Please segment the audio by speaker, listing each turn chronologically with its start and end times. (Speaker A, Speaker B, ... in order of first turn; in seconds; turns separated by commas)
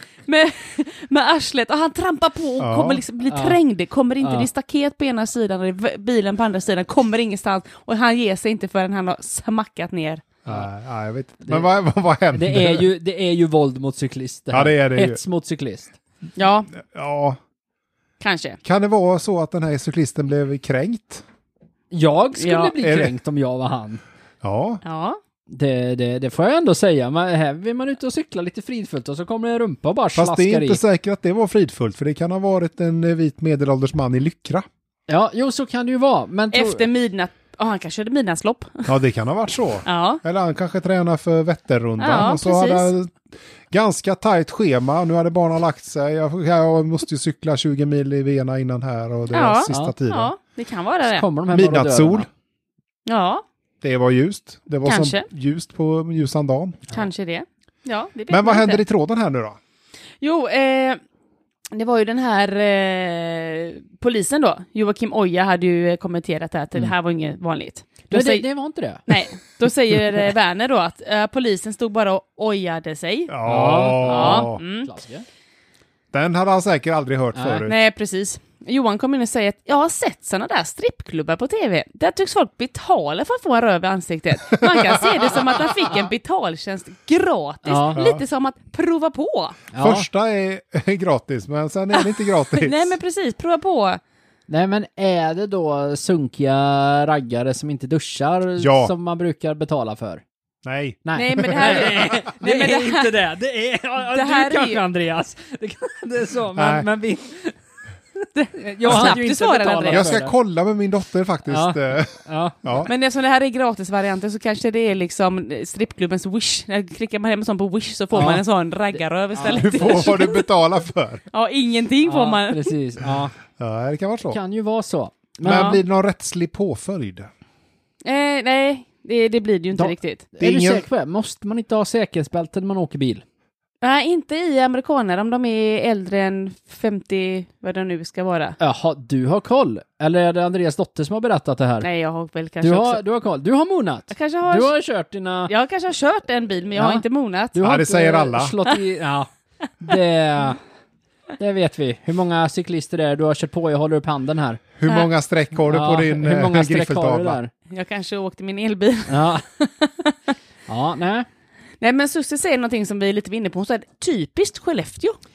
Speaker A: 0.2-10.2, Speaker B: 2.6-3.0, Speaker C: 3.3-3.6, Speaker C: 4.2-4.5, Speaker B: 10.4-12.8, Speaker C: 12.3-15.9, Speaker B: 14.5-15.2, Speaker A: 16.4-16.7, Speaker B: 16.7-17.4, Speaker A: 18.2-18.6, Speaker B: 18.6-21.2, Speaker C: 21.9-24.0, Speaker A: 22.4-22.7, Speaker B: 22.8-23.1, Speaker B: 24.4-24.8, Speaker A: 24.8-25.2, Speaker C: 25.5-30.8, Speaker B: 30.1-34.6, Speaker C: 35.1-36.9, Speaker A: 36.5-38.9, Speaker B: 38.9-50.3, Speaker A: 39.8-40.2, Speaker A: 42.0-42.9, Speaker A: 49.3-51.2, Speaker C: 49.7-49.9, Speaker C: 51.0-52.3, Speaker B: 51.5-52.3, Speaker A: 53.0-53.4, Speaker B: 53.8-56.9, Speaker A: 54.8-55.2, Speaker A: 56.9-58.8, Speaker B: 58.3-59.6, Speaker A: 60.2-61.0, Speaker A: 61.7-68.4, Speaker C: 68.1-69.1, Speaker A: 69.1-73.3, Speaker B: 73.3-74.6, Speaker C: 73.4-75.2, Speaker A: 74.0-74.9, Speaker B: 76.1-77.8, Speaker C: 77.3-77.7, Speaker A: 77.7-89.6, Speaker B: 84.5-86.0, Speaker C: 87.7-88.0, Speaker B: 88.0-88.2, Speaker C: 89.7-90.0, Speaker B: 89.8-93.0, Speaker A: 91.9-94.0, Speaker C: 94.5-100.2, Speaker B: 98.6-98.9, Speaker B: 100.6-102.1, Speaker C: 101.0-107.5, Speaker A: 101.1-103.1, Speaker A: 104.0-104.8, Speaker B: 106.5-106.9, Speaker C: 108.2-110.3, Speaker A: 108.3-110.2, Speaker B: 109.9-112.9, Speaker C: 111.5-112.6, Speaker A: 112.8-120.5, Speaker C: 118.1-118.4, Speaker C: 119.4-119.7, Speaker B: 119.5-121.2, Speaker A: 121.3-122.7, Speaker C: 122.0-123.3, Speaker B: 123.6-124.4, Speaker C: 124.3-125.8, Speaker B: 125.4-127.3, Speaker A: 125.5-125.8, Speaker A: 128.0-130.2, Speaker C: 129.7-133.2, Speaker B: 130.4-130.8, Speaker A: 133.8-138.6, Speaker C: 138.6-141.9, Speaker A: 141.8-143.0, Speaker C: 142.6-145.5, Speaker A: 144.1-144.7, Speaker A: 145.5-147.6, Speaker C: 146.7-147.0, Speaker C: 147.5-149.3, Speaker B: 147.6-148.6, Speaker C: 149.8-150.6, Speaker C: 151.4-154.6, Speaker B: 154.8-157.4, Speaker C: 155.7-157.5, Speaker A: 157.7-160.1, Speaker C: 159.1-159.4, Speaker C: 160.7-161.3, Speaker A: 161.8-165.2